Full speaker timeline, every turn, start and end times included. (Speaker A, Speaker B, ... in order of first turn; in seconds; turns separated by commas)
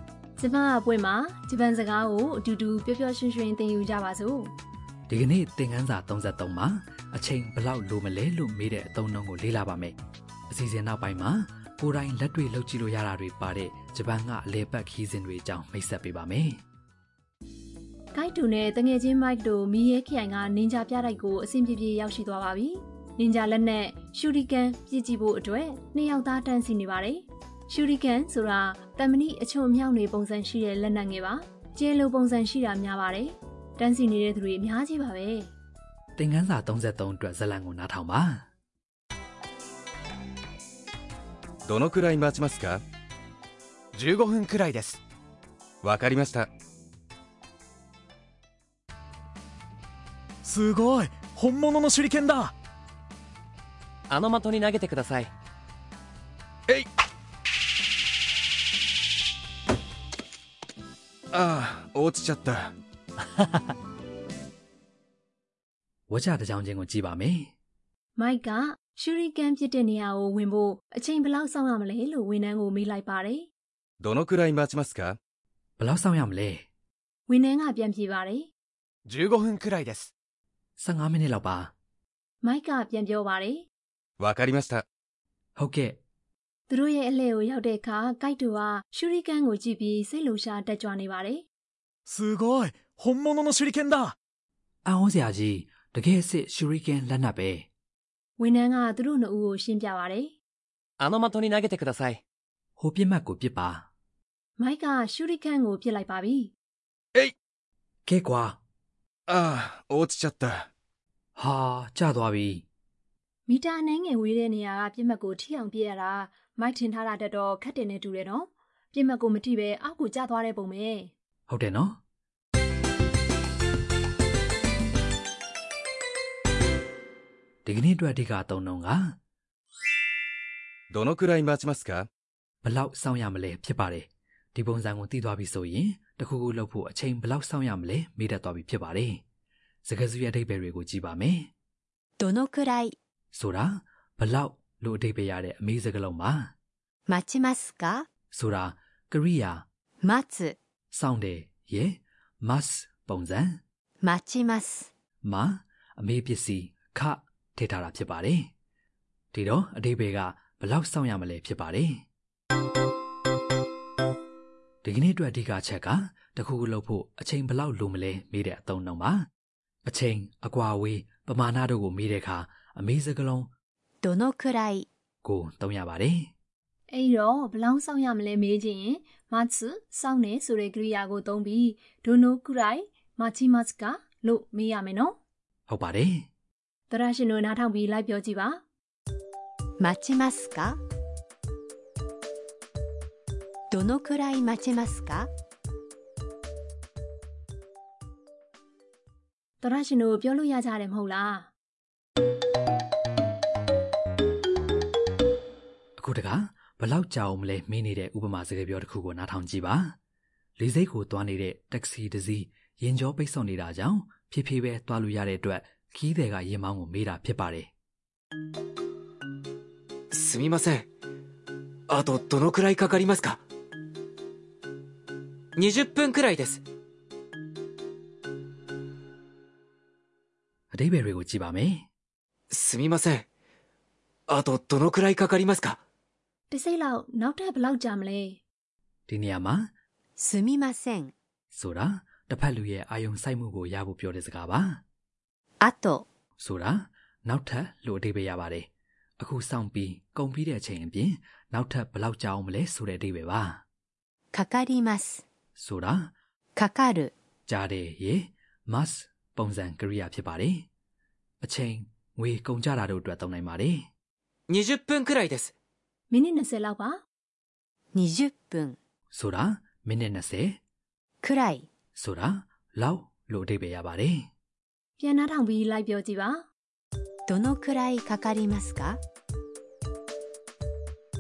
Speaker A: 0.4-4.5, Speaker B: 5.1-10.0, Speaker B: 10.5-16.6, Speaker A: 18.1-35.5, Speaker B: 36.2-38.5, Speaker C: 41.6-42.8, Speaker D: 44.0-45.0, Speaker C: 45.8-46.5, Speaker D: 50.4-52.5, Speaker E: 54.1-55.3, Speaker C: 61.3-62.7, Speaker B: 66.1-67.5, Speaker A: 68.2-73.5, Speaker C: 74.0-75.2, Speaker B: 75.8-76.6, Speaker A: 77.3-78.5, Speaker C: 79.1-80.1, Speaker D: 79.4-79.8, Speaker B: 80.8-81.7, Speaker A: 82.4-83.7, Speaker C: 84.2-84.9, Speaker B: 85.6-86.0, Speaker A: 86.7-91.5, Speaker D: 92.1-94.2, Speaker B: 94.8-97.7, Speaker A: 98.4-100.3, Speaker E: 101.0-102.2, Speaker B: 102.8-103.9, Speaker A: 104.6-106.5, Speaker B: 108.1-108.6, Speaker C: 109.3-110.7, Speaker B: 111.4-112.6, Speaker A: 113.5-121.1, Speaker B: 121.5-122.0, Speaker B: 127.7-129.2, Speaker C: 130.9-132.1, Speaker B: 132.6-139.2, Speaker B: 139.8-141.5, Speaker F: 142.2-142.9, Speaker B: 143.3-146.5, Speaker F: 147.1-148.1, Speaker B: 148.3-149.7, Speaker F: 150.0-150.6, Speaker B: 150.9-153.6, Speaker F: 154.0-154.9, Speaker B: 155.2-158.5, Speaker B: 159.3-162.0, Speaker B: 164.8-169.3, Speaker B: 169.8-173.5, Speaker F: 174.0-174.9, Speaker B: 175.2-176.3, Speaker A: 176.9-185.2, Speaker B: 185.7-186.3, Speaker A: 186.9-188.6, Speaker F: 189.8-190.8, Speaker F: 193.7-195.3, Speaker A: 199.6-201.5, Speaker B: 206.0-210.0, Speaker B: 210.6-217.7, Speaker G: 220.1-220.9, Speaker G: 221.9-223.4, Speaker G: 225.6-226.6, Speaker B: 230.7-231.9, Speaker G: 232.5-233.3, Speaker G: 234.3-235.8, Speaker A: 236.5-238.4, Speaker B: 239.1-239.7, Speaker F: 240.2-241.1, Speaker B: 241.5-244.8, Speaker F: 245.6-246.1, Speaker B: 246.4-253.6, Speaker F: 254.3-255.2, Speaker B: 255.6-256.1, Speaker F: 256.6-257.1, Speaker B: 257.5-260.7, Speaker B: 261.4-263.9, Speaker G: 264.5-265.5, Speaker A: 266.1-267.0, Speaker F: 267.9-268.8, Speaker B: 269.1-270.6, Speaker F: 271.2-271.7, Speaker B: 271.9-274.3, Speaker A: 275.0-276.5, Speaker F: 277.3-279.0